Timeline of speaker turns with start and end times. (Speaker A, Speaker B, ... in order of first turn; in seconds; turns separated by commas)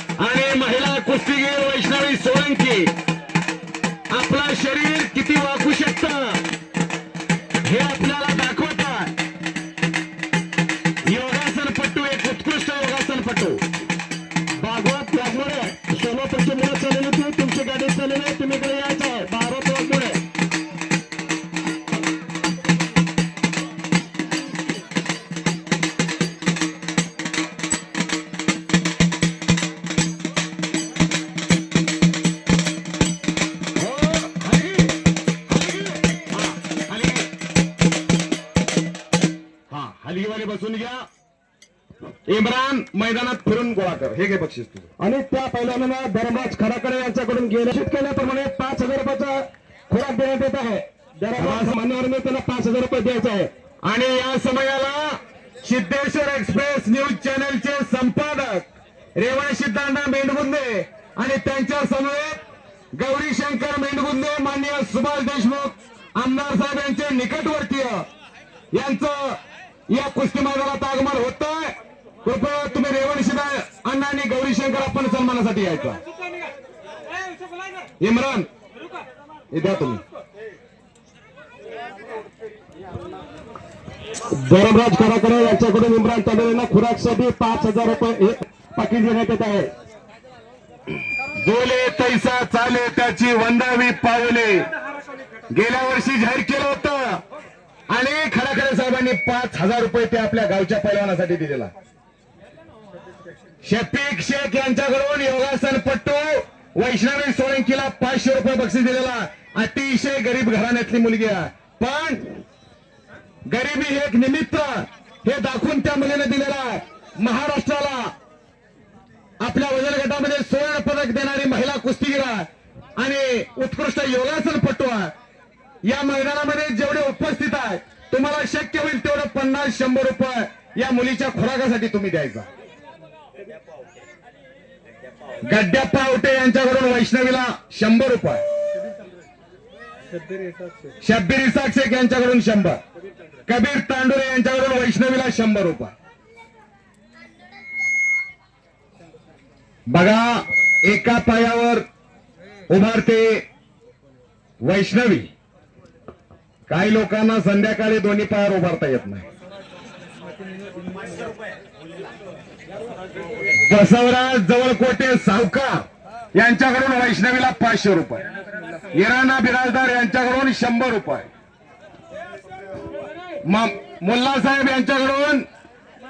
Speaker A: 0.2-2.9, Speaker A: 4.1-6.4, Speaker A: 7.6-9.1, Speaker A: 11.1-13.6, Speaker B: 14.6-20.2, Speaker A: 33.8-34.9, Speaker A: 35.5-37.3, Speaker A: 39.7-41.0, Speaker A: 42.3-44.9, Speaker B: 45.0-53.5, Speaker A: 51.4-51.8, Speaker A: 53.8-62.4, Speaker A: 63.0-68.0, Speaker A: 68.7-69.4, Speaker A: 69.9-71.7, Speaker A: 72.2-76.0, Speaker A: 78.0-78.5, Speaker A: 79.5-80.0, Speaker B: 84.3-89.7, Speaker A: 91.4-94.7, Speaker A: 95.5-97.2, Speaker A: 97.9-101.7, Speaker A: 103.6-112.4, Speaker A: 113.5-118.1, Speaker A: 119.4-122.5, Speaker A: 123.0-125.1, Speaker A: 125.8-132.5, Speaker A: 135.5-138.4, Speaker A: 141.0-142.8, Speaker A: 143.5-145.9, Speaker A: 149.9-150.3, Speaker A: 150.8-151.8, Speaker A: 152.7-153.4, Speaker A: 154.6-155.3, Speaker A: 156.7-159.2, Speaker A: 163.7-165.8, Speaker A: 166.3-168.2, Speaker A: 168.9-171.3, Speaker A: 173.4-175.5